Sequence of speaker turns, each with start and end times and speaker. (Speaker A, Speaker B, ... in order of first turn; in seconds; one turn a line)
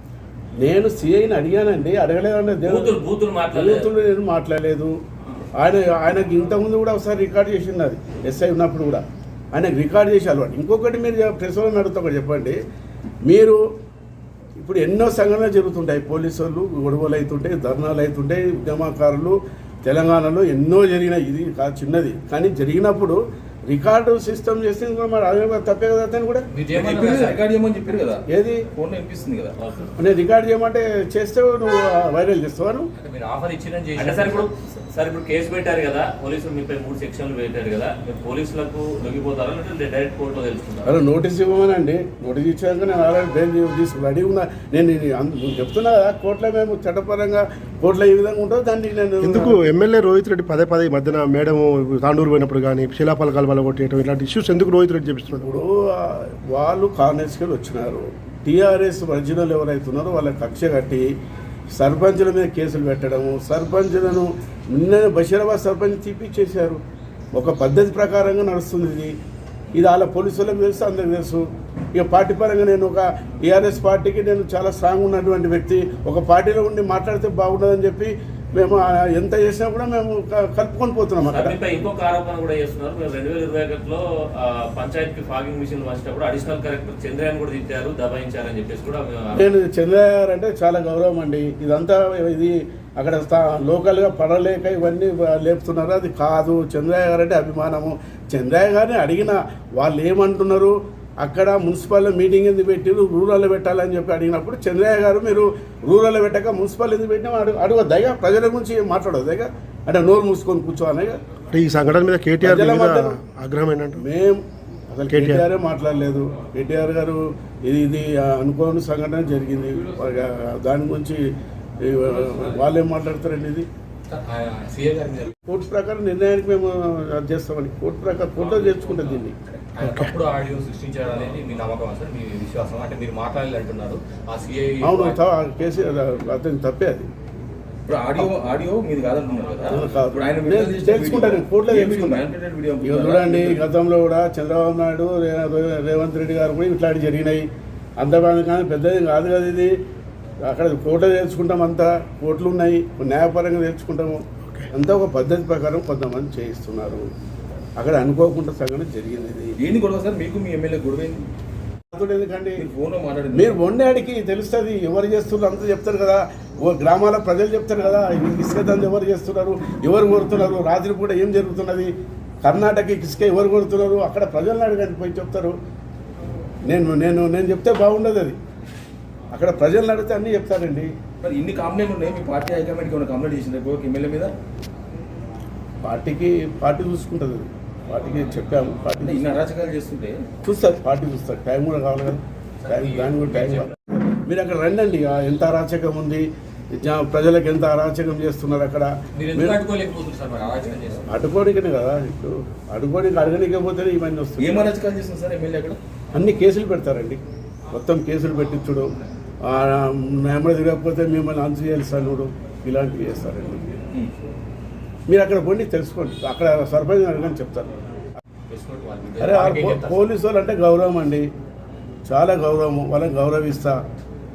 Speaker A: 0.6-3.0
Speaker B: 2.6-3.9
Speaker A: 3.5-4.9
Speaker A: 5.6-12.6
Speaker A: 13.2-13.6
Speaker A: 14.6-26.4
Speaker C: 26.5-27.4
Speaker D: 26.7-28.2
Speaker A: 28.3-28.7
Speaker D: 28.7-29.6
Speaker B: 29.6-29.9
Speaker A: 30.0-32.9
Speaker C: 33.0-34.8
Speaker B: 34.0-40.9
Speaker A: 40.9-49.6
Speaker E: 49.2-55.5
Speaker A: 55.3-61.1
Speaker A: 61.7-66.8
Speaker A: 67.3-69.1
Speaker A: 69.7-81.6
Speaker B: 81.2-89.5
Speaker A: 89.3-111.2
Speaker E: 111.5-114.0
Speaker A: 112.4-113.2
Speaker A: 114.0-121.2
Speaker E: 115.1-115.4
Speaker A: 121.8-123.7
Speaker C: 124.1-125.3
Speaker A: 125.5-129.3
Speaker C: 128.5-129.0
Speaker C: 129.7-135.2
Speaker E: 129.8-130.1
Speaker A: 134.8-137.1
Speaker D: 137.9-143.7
Speaker A: 139.7-142.2
Speaker A: 142.8-147.4
Speaker A: 148.0-149.7
Speaker A: 150.4-157.1
Speaker A: 157.8-159.5
Speaker D: 159.6-161.2
Speaker A: 161.9-162.7
Speaker D: 162.6-163.6
Speaker A: 163.3-171.9
Speaker A: 172.4-175.5
Speaker A: 176.7-178.4
Speaker A: 179.3-180.9
Speaker D: 181.2-184.3
Speaker A: 185.8-189.4
Speaker D: 189.0-190.2
Speaker A: 190.4-199.6
Speaker C: 192.6-193.7
Speaker C: 199.2-201.1
Speaker A: 201.1-204.7
Speaker D: 204.4-205.8
Speaker A: 206.1-207.2
Speaker A: 207.7-208.9
Speaker A: 209.4-213.6
Speaker A: 215.1-217.7
Speaker C: 218.5-220.0
Speaker A: 219.2-221.2
Speaker A: 222.1-223.8